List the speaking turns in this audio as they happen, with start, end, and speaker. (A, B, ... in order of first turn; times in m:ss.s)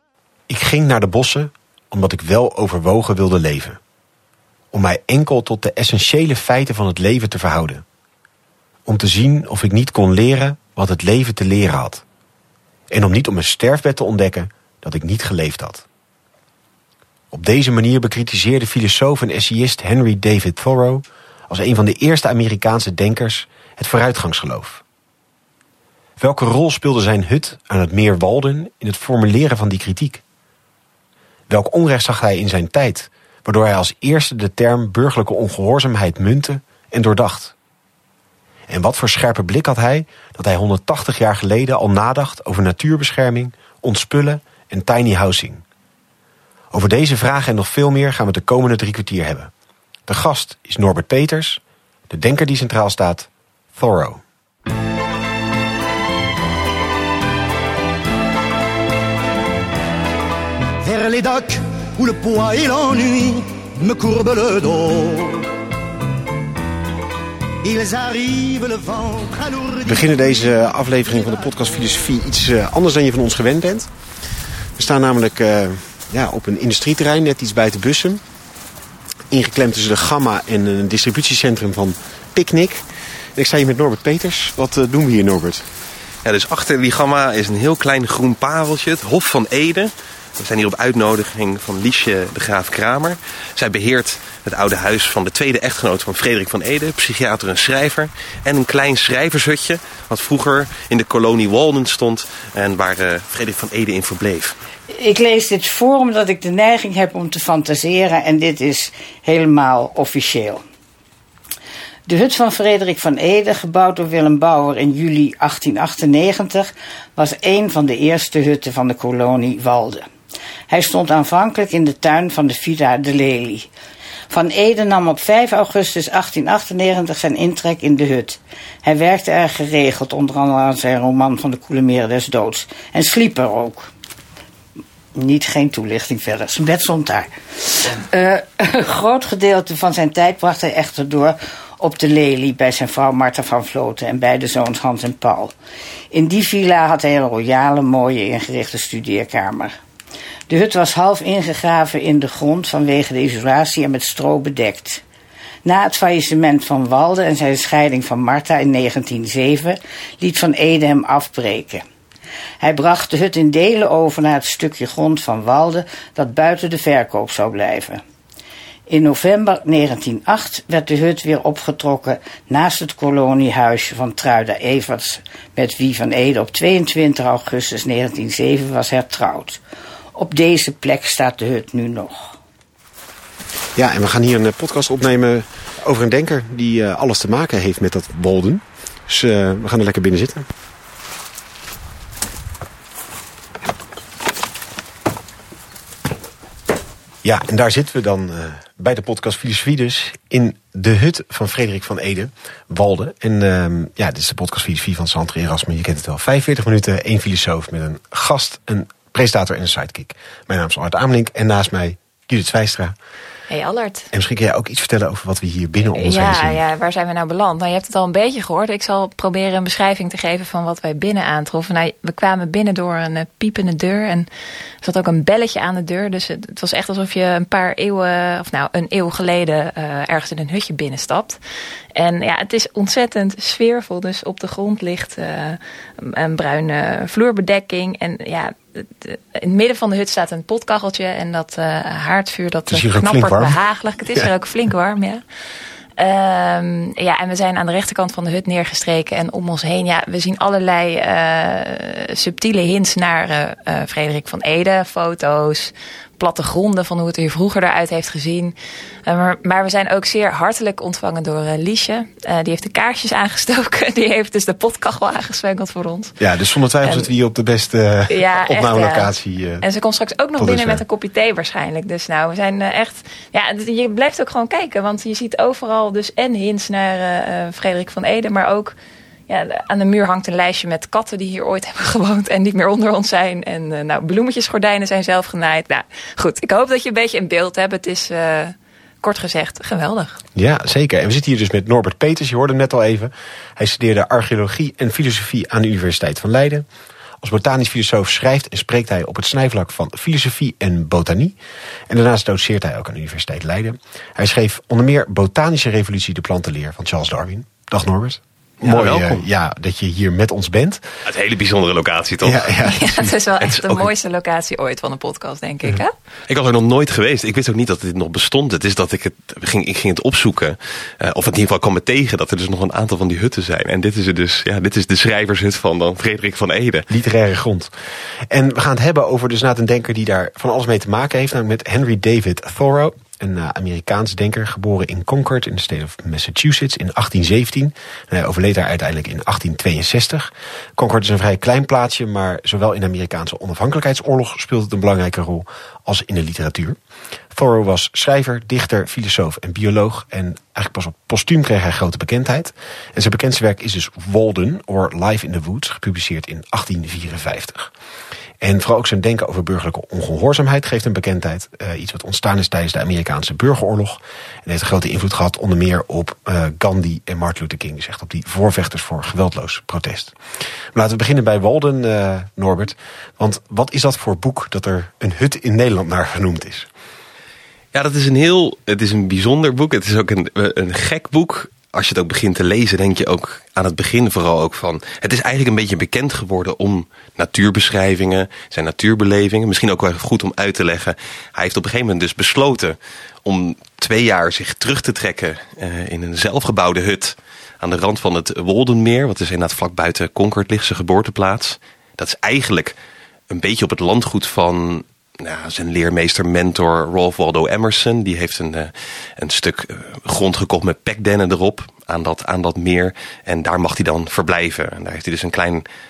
0:00.5-0:03.8 A
0:04.7-0:07.8 A
0:08.9-0:12.0 A
0:12.9-0:15.8 A
0:17.3-0:24.8 A
0:26.2-0:30.2 A
0:31.5-0:37.5 A
0:38.7-0:45.6 A
0:46.7-0:49.5 A
0:50.1-0:54.2 A
1:00.8-1:05.5 B
1:07.6-1:10.5 B
1:09.8-1:13.9 A
1:14.8-1:18.2 A
1:19.3-1:22.8 A
1:23.4-1:25.7 A
1:26.2-1:44.6 C
1:44.9-1:50.6 D
1:52.1-2:00.1 D
2:00.7-2:03.7 D
2:04.3-2:13.9 D
2:15.2-2:25.5 D
2:26.1-2:29.8 D
2:30.5-2:35.0 D
2:35.6-2:41.8 D
2:42.6-2:48.0 D
2:48.9-2:59.6 D
3:00.1-3:02.4 D
3:03.8-3:10.5 A
3:17.2-3:33.0 A
3:33.5-3:34.1 E
3:34.1-3:36.6 A
3:35.9-3:44.3 E
3:44.8-3:51.4 E
3:52.0-4:05.2 E
4:02.7-4:03.6 A
4:06.0-4:18.6 E
4:19.1-4:26.2 E
4:26.2-4:29.6 A
4:28.1-4:29.1 E
4:29.6-4:38.8 E
4:30.4-4:30.8 A
4:39.3-4:50.2 E
4:50.4-4:56.7 A
4:57.2-5:01.4 A
5:01.9-5:10.8 A
5:08.6-5:09.2 C
5:11.0-5:12.5 C
5:12.2-5:13.1 A
5:12.7-5:15.9 E
5:13.5-5:13.9 C
5:16.3-5:26.9 C
5:26.9-5:27.7 A
5:28.3-5:46.8 A
5:47.3-5:57.7 A
5:58.4-6:10.2 A
6:10.7-6:16.7 A
6:17.7-6:42.8 C
6:43.3-6:55.6 C